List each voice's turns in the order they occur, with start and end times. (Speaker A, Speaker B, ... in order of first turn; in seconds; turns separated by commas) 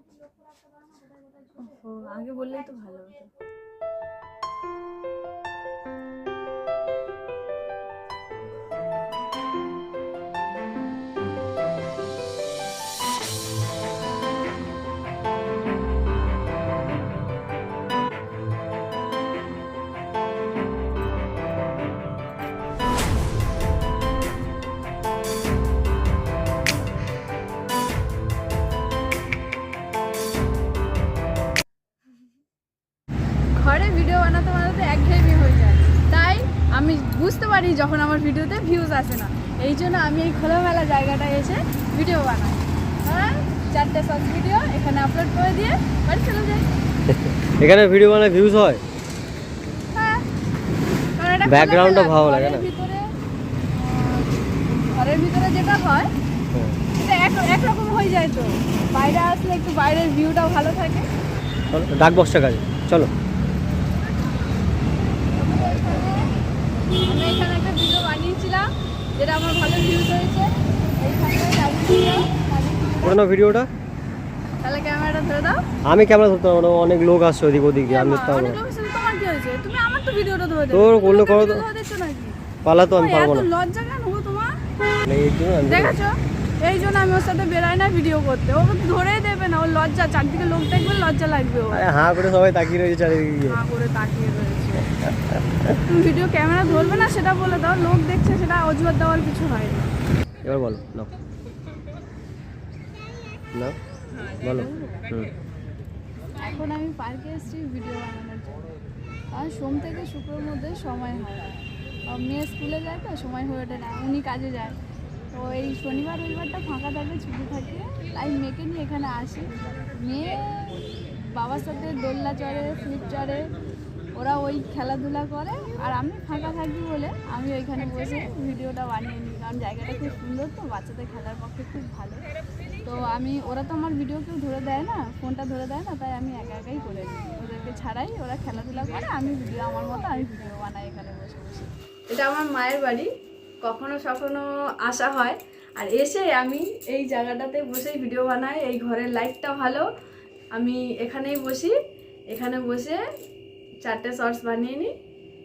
Speaker A: 1.6-3.3, Speaker A: 33.5-46.7, Speaker B: 47.1-48.8, Speaker A: 49.9-50.3, Speaker A: 51.2-53.1, Speaker B: 51.5-52.7, Speaker A: 53.7-56.1, Speaker B: 56.5-56.8, Speaker A: 57.0-61.1, Speaker B: 61.7-63.1, Speaker A: 65.4-66.3, Speaker A: 67.0-73.2, Speaker B: 73.0-73.7, Speaker A: 74.6-75.6, Speaker B: 75.8-78.6, Speaker A: 77.9-84.6, Speaker B: 80.7-81.6, Speaker B: 82.7-83.5, Speaker B: 85.0-86.0, Speaker A: 85.7-91.8, Speaker B: 91.7-93.6, Speaker A: 93.5-94.9, Speaker A: 95.8-99.9, Speaker B: 100.4-101.1, Speaker B: 104.4-105.3, Speaker A: 104.5-105.0, Speaker A: 106.3-108.6, Speaker A: 109.3-111.6, Speaker A: 112.1-114.8, Speaker A: 115.3-123.5, Speaker A: 124.2-132.2, Speaker A: 132.8-143.1, Speaker A: 143.6-149.9, Speaker A: 150.5-151.8, Speaker A: 152.3-153.0, Speaker A: 153.8-154.9